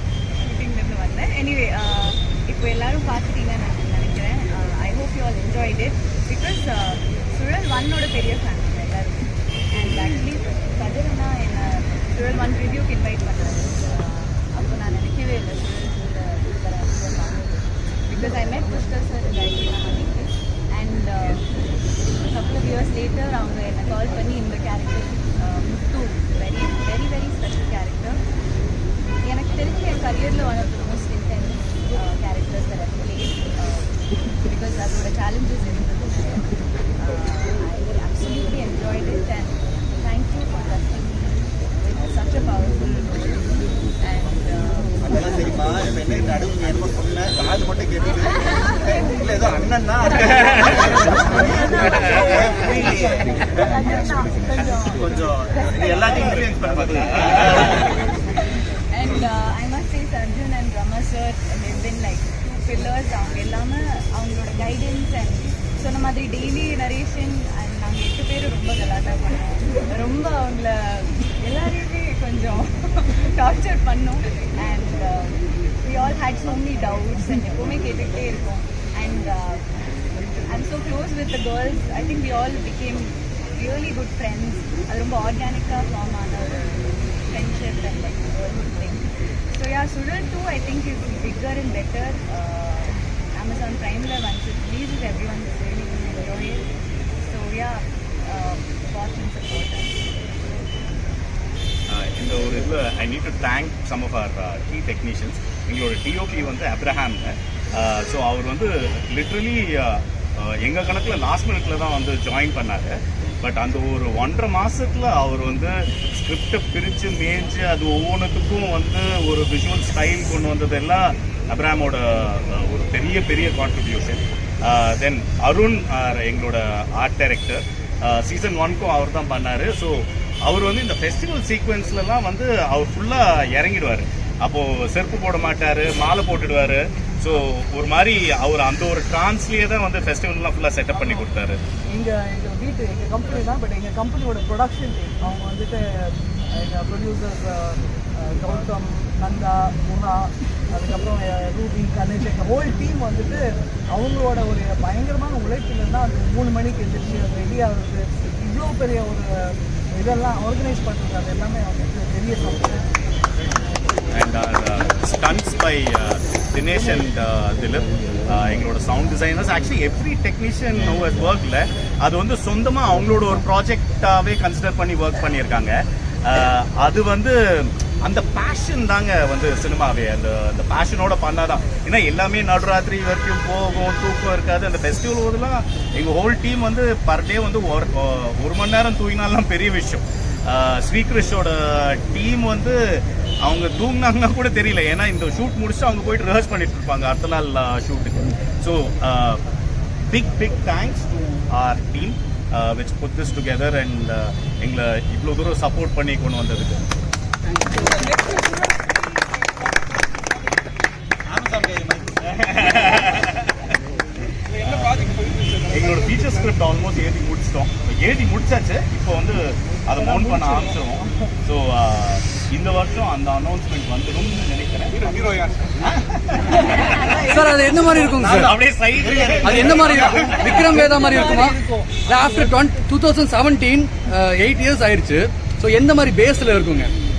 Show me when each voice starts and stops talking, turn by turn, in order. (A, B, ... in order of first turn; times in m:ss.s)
0:00.4-0:21.4 A
0:22.2-0:28.2 A
0:29.3-0:36.5 A
0:37.0-0:43.4 A
0:44.0-0:45.2 A
0:45.0-0:57.9 B
0:51.5-0:52.5 A
0:53.6-0:55.0 A
0:55.5-0:56.0 A
0:56.0-0:57.7 C
0:58.9-1:19.7 A
1:20.5-1:36.6 A
1:37.2-1:40.0 A
1:41.9-2:21.6 C
2:21.9-2:33.4 D
2:34.0-2:39.3 D
2:40.0-2:42.8 D
2:44.1-2:55.7 C
2:56.2-3:19.4 C
3:20.1-3:26.8 C
3:27.6-3:28.1 B
3:31.3-3:32.8 B
3:32.3-3:33.5 C
3:34.5-3:36.6 E
3:34.6-3:34.9 C
3:35.7-3:45.1 C
3:40.0-3:41.1 D
3:44.9-3:45.9 E
3:45.8-3:47.4 C
3:47.2-3:48.6 F
3:48.0-3:50.8 C
3:49.0-3:50.3 E
3:49.4-3:56.9 F
3:50.2-3:52.6 D